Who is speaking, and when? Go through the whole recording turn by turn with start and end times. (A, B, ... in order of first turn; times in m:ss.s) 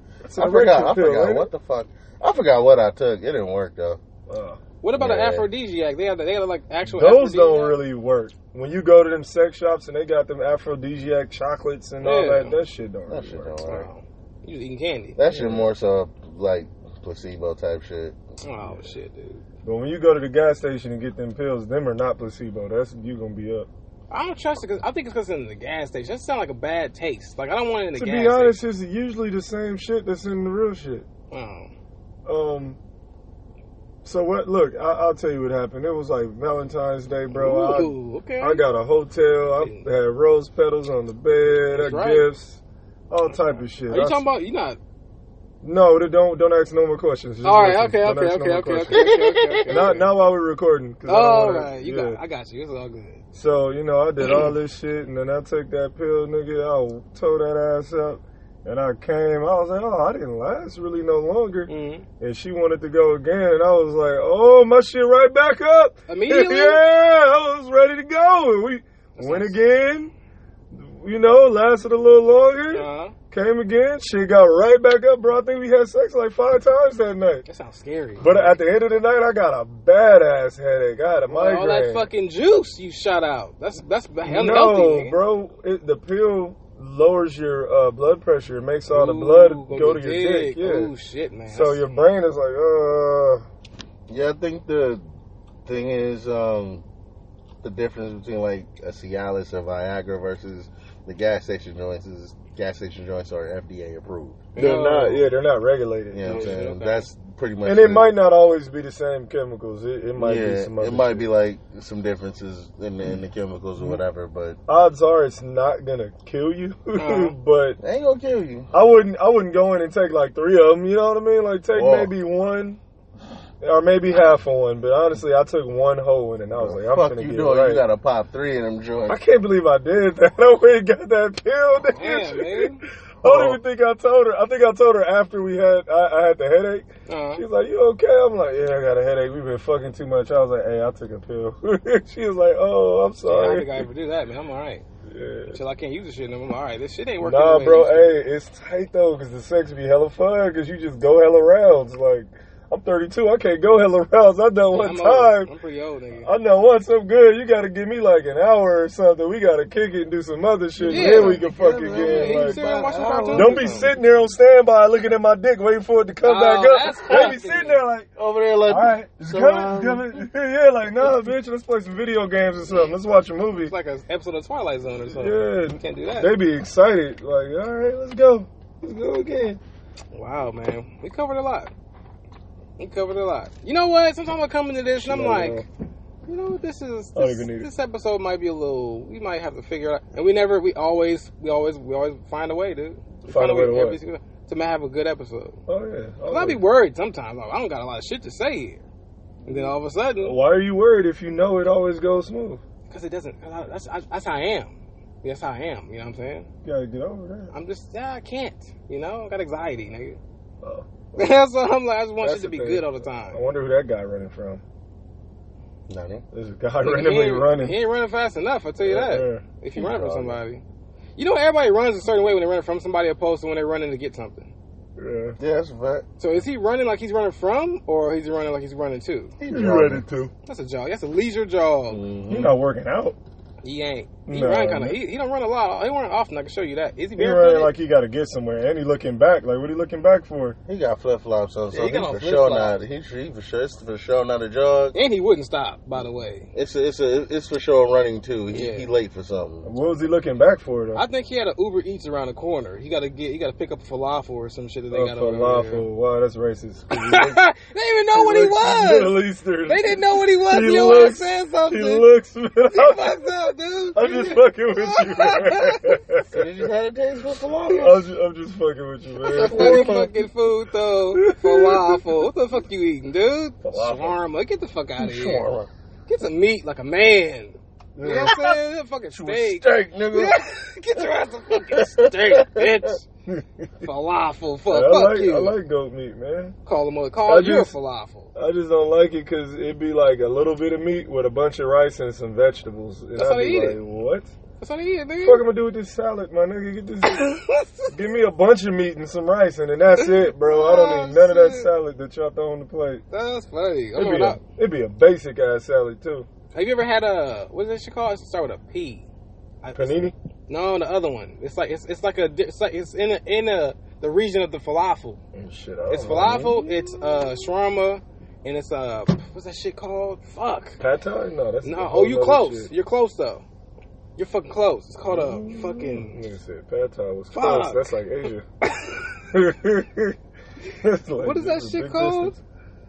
0:00.2-0:01.5 A
0:00.4-0:04.0 B
0:04.3-0:04.6 A
0:04.8-0:07.8 C
0:05.0-0:05.5 B
0:06.9-0:13.6 A
0:12.0-0:12.6 C
0:13.1-0:13.9 B
0:13.6-0:15.6 C
0:15.2-0:18.2 B
0:18.4-0:19.4 C
0:19.6-0:23.7 A
0:24.1-0:28.6 C
0:28.0-0:31.1 A
0:31.3-0:31.7 C
0:32.3-0:32.8 A
0:34.0-0:44.2 A
0:37.3-0:38.6 C
0:41.7-0:42.3 C
0:43.9-0:44.8 C
0:45.6-0:49.1 A
0:47.4-0:50.1 C
0:48.9-0:50.0 B
0:49.7-0:52.2 A
0:51.1-0:53.2 C
0:53.3-1:01.7 A
0:54.2-0:54.5 C
1:01.7-1:02.0 C
1:02.2-1:10.1 A
1:06.1-1:06.8 C
1:09.2-1:09.5 C
1:10.7-1:17.4 A
1:12.7-1:13.1 C
1:17.5-1:18.6 C
1:18.2-1:22.1 A
1:21.3-1:25.2 C
1:24.2-1:30.9 A
1:28.9-1:31.8 C
1:31.5-1:33.4 A
1:34.1-1:35.0 B
1:35.6-1:36.8 B
1:37.6-1:44.7 B
1:44.6-1:45.3 C
1:44.6-1:46.6 A
1:46.1-1:48.1 B
1:46.2-1:47.1 C
1:47.6-1:51.3 A
1:50.2-1:54.6 B
1:54.7-1:57.8 A
1:57.0-1:57.4 C
1:57.8-1:58.7 B
1:58.7-2:02.8 A
2:01.8-2:02.1 B
2:03.6-2:07.8 A
2:06.6-2:09.2 B
2:09.1-2:23.9 A
2:11.9-2:12.8 C
2:13.2-2:13.6 B
2:17.1-2:17.4 C
2:23.3-2:24.8 C
2:25.1-2:25.6 A
2:25.5-2:28.2 C
2:27.2-2:35.5 A
2:34.7-2:36.3 C
2:36.2-2:42.6 A
2:40.8-2:43.9 B
2:40.9-2:43.9 C
2:43.3-2:48.1 A
2:46.2-2:47.8 C
2:47.1-2:47.4 B
2:48.2-2:50.2 B
2:48.7-2:53.7 A
2:53.6-2:56.3 C
2:55.1-2:59.6 A
3:00.1-3:01.7 C
3:02.8-3:05.6 C
3:05.0-3:05.7 A
3:06.3-3:15.6 C
3:07.2-3:07.7 A
3:13.2-3:14.0 A
3:15.7-3:16.6 A
3:16.3-3:18.8 C
3:19.4-3:22.6 A
3:19.5-3:20.4 C
3:22.9-3:26.5 C
3:26.6-3:27.5 A
3:27.5-3:30.2 C
3:30.6-3:31.3 A
3:31.2-3:33.4 C
3:32.2-3:34.6 A
3:35.9-3:36.2 B
3:36.3-3:37.8 A
3:36.8-3:40.6 C
3:38.8-3:39.4 A
3:39.8-3:40.4 B
3:41.2-3:44.5 C
3:45.0-3:45.4 A
3:45.4-3:46.1 B
3:46.2-3:49.3 C
3:49.4-3:50.0 B
3:49.5-3:50.3 A
3:50.5-3:52.0 C
3:51.9-3:52.6 B
3:52.3-3:53.2 A
3:53.6-3:57.7 C
3:54.3-3:55.0 A
3:57.2-4:00.6 A
4:00.7-4:05.0 B
4:01.7-4:02.8 C
4:04.9-4:06.5 C
4:06.5-4:09.7 B
4:08.5-4:08.9 C
4:09.6-4:11.0 A
4:10.9-4:15.8 C
4:14.9-4:17.4 A
4:16.9-4:22.1 C
4:18.1-4:23.2 A
4:22.7-4:26.0 C
4:23.9-4:26.7 A
4:26.3-4:28.0 B
4:27.7-4:30.0 A
4:29.2-4:35.4 C
4:29.3-4:30.1 B
4:31.2-4:32.0 A
4:33.6-4:34.2 A
4:35.0-4:35.7 B
4:36.1-4:43.0 C
4:38.0-4:38.4 A
4:38.0-4:38.5 B
4:39.1-4:40.4 B
4:41.0-4:42.9 B
4:43.3-4:43.7 A
4:43.8-4:45.6 C
4:44.7-4:46.6 A
4:46.7-4:48.3 C
4:47.3-4:47.7 A
4:48.4-4:54.3 A
4:53.2-4:53.8 C
4:54.6-4:55.4 C
4:55.2-4:57.3 A
4:57.1-4:57.9 C
4:57.9-5:03.0 A
5:00.4-5:01.7 C
5:03.1-5:04.4 C
5:04.0-5:06.3 A
5:06.5-5:09.1 C
5:09.6-5:15.2 C
5:09.8-5:10.1 A
5:15.3-5:16.6 A
5:15.9-5:20.8 C
5:20.8-5:22.7 A
5:21.6-5:23.4 C
5:24.2-5:26.2 C
5:25.1-5:28.5 A
5:27.3-5:27.8 C
5:28.6-5:29.1 C
5:29.3-5:30.2 A
5:30.8-5:32.4 A
5:31.2-5:32.3 C